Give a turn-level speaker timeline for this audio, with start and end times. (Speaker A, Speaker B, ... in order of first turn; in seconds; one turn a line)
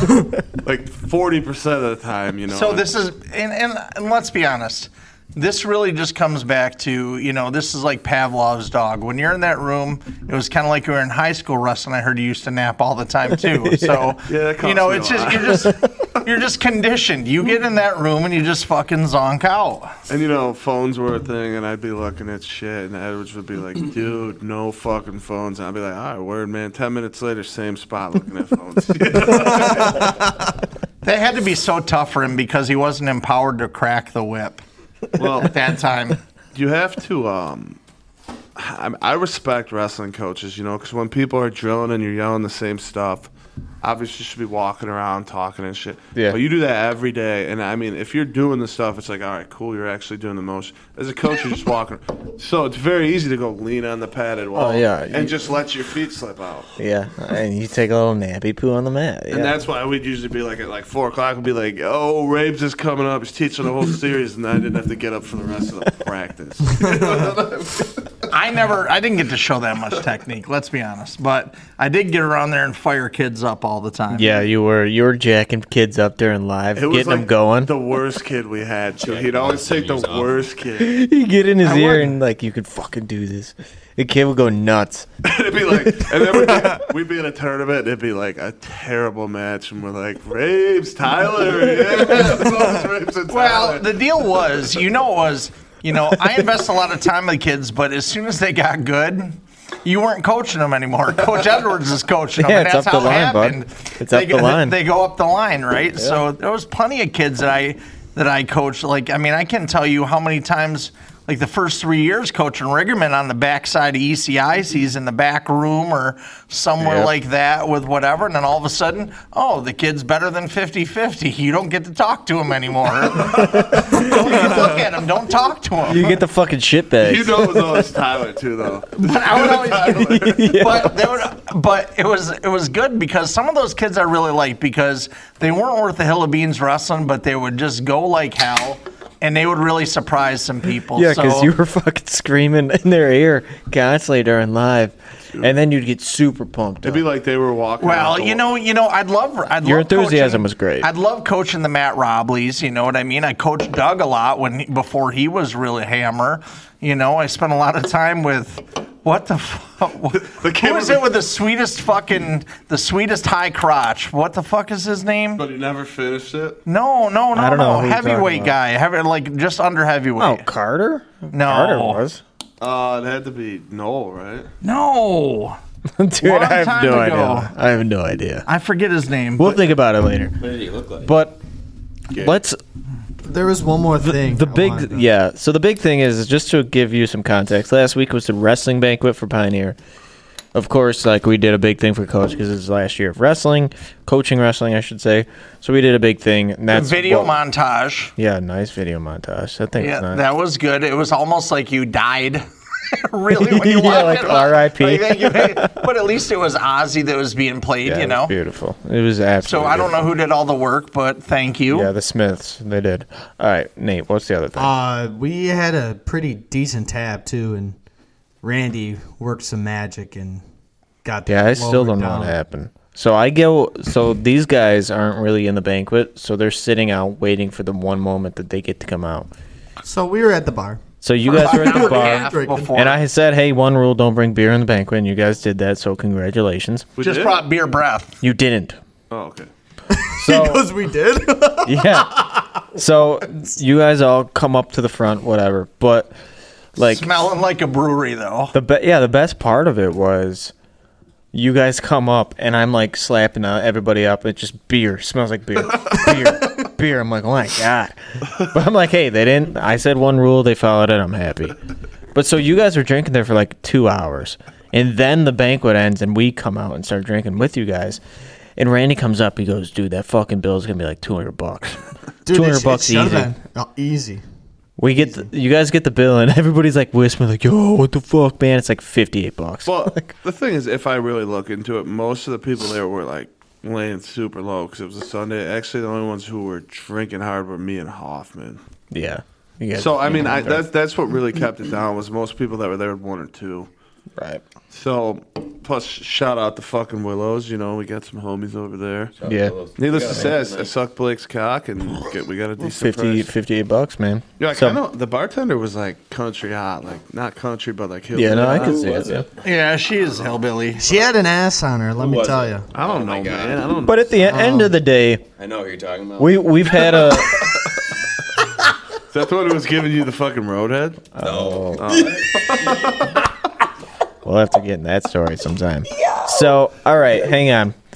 Speaker A: 0.6-2.9
Speaker B: 2.5-19.9
Speaker C: 13.3-14.1
Speaker A: 14.2-15.7
Speaker A: 20.1-30.2
Speaker D: 29.5-30.3
Speaker B: 31.0-34.6
Speaker A: 35.2-35.5
Speaker B: 35.4-36.2
Speaker A: 36.5-37.8
Speaker A: 38.5-43.3
Speaker A: 43.8-56.7
Speaker C: 54.5-55.3
Speaker C: 56.8-59.5
Speaker A: 59.3-68.1
Speaker B: 68.3-74.3
Speaker C: 74.1-77.7
Speaker A: 76.8-81.0
Speaker E: 79.0-80.5
Speaker C: 80.8-85.1
Speaker B: 81.6-82.0
Speaker A: 85.2-93.9
Speaker C: 85.9-86.8
Speaker C: 91.8-92.2
Speaker B: 93.3-126.1
Speaker C: 102.4-104.8
Speaker C: 116.8-117.1
Speaker C: 123.3-124.3
Speaker A: 123.4-124.7
Speaker C: 125.9-127.9
Speaker A: 127.0-130.4
Speaker B: 128.9-141.5
Speaker C: 130.1-130.9
Speaker C: 140.9-147.0
Speaker A: 146.8-148.4
Speaker B: 147.8-165.4
Speaker C: 149.6-150.9
Speaker A: 160.2-161.1
Speaker A: 165.3-166.6
Speaker B: 166.7-170.4
Speaker C: 167.3-168.6
Speaker C: 170.2-172.2
Speaker B: 171.3-172.0
Speaker A: 172.6-174.5
Speaker B: 174.6-175.6
Speaker C: 175.9-178.5
Speaker B: 176.2-177.5
Speaker B: 178.5-179.7
Speaker C: 179.4-180.4
Speaker E: 180.4-181.1
Speaker C: 181.0-181.4
Speaker C: 182.1-182.6
Speaker D: 183.2-185.1
Speaker C: 184.0-189.8
Speaker C: 190.5-197.3
Speaker B: 196.7-198.1
Speaker C: 198.2-200.2
Speaker B: 199.8-208.3
Speaker C: 203.3-205.8
Speaker C: 207.8-210.1
Speaker B: 209.4-211.9
Speaker C: 211.7-214.7
Speaker D: 214.6-217.8
Speaker D: 218.4-220.4
Speaker D: 221.0-222.3
Speaker C: 221.3-229.3
Speaker D: 229.8-232.8
Speaker C: 231.0-236.9
Speaker B: 231.3-233.0
Speaker A: 237.0-237.4
Speaker B: 237.0-238.2
Speaker C: 238.2-238.8
Speaker A: 239.1-239.5
Speaker D: 239.9-242.4
Speaker C: 240.2-240.7
Speaker C: 241.6-246.1
Speaker C: 246.8-247.1
Speaker B: 246.8-248.5
Speaker C: 248.5-250.5
Speaker C: 251.3-261.6
Speaker C: 262.1-268.0
Speaker C: 268.6-273.3
Speaker D: 272.3-274.2
Speaker C: 274.8-280.1
Speaker D: 274.9-275.3
Speaker A: 279.6-288.6
Speaker C: 288.9-290.6
Speaker A: 289.7-293.7
Speaker C: 294.1-294.4
Speaker A: 294.7-299.2
Speaker E: 299.2-300.7
Speaker C: 299.2-299.6
Speaker A: 299.8-303.3
Speaker C: 302.6-304.8
Speaker A: 304.4-309.0
Speaker C: 308.1-309.2
Speaker E: 308.2-309.3
Speaker B: 309.4-310.9
Speaker D: 310.8-312.7
Speaker E: 312.0-313.8
Speaker A: 312.7-314.2
Speaker C: 313.9-315.2
Speaker D: 314.2-314.8
Speaker E: 315.4-317.1
Speaker C: 316.2-317.5
Speaker A: 319.1-321.1
Speaker C: 321.1-321.8
Speaker E: 321.2-322.9
Speaker A: 321.8-323.2
Speaker C: 324.2-327.7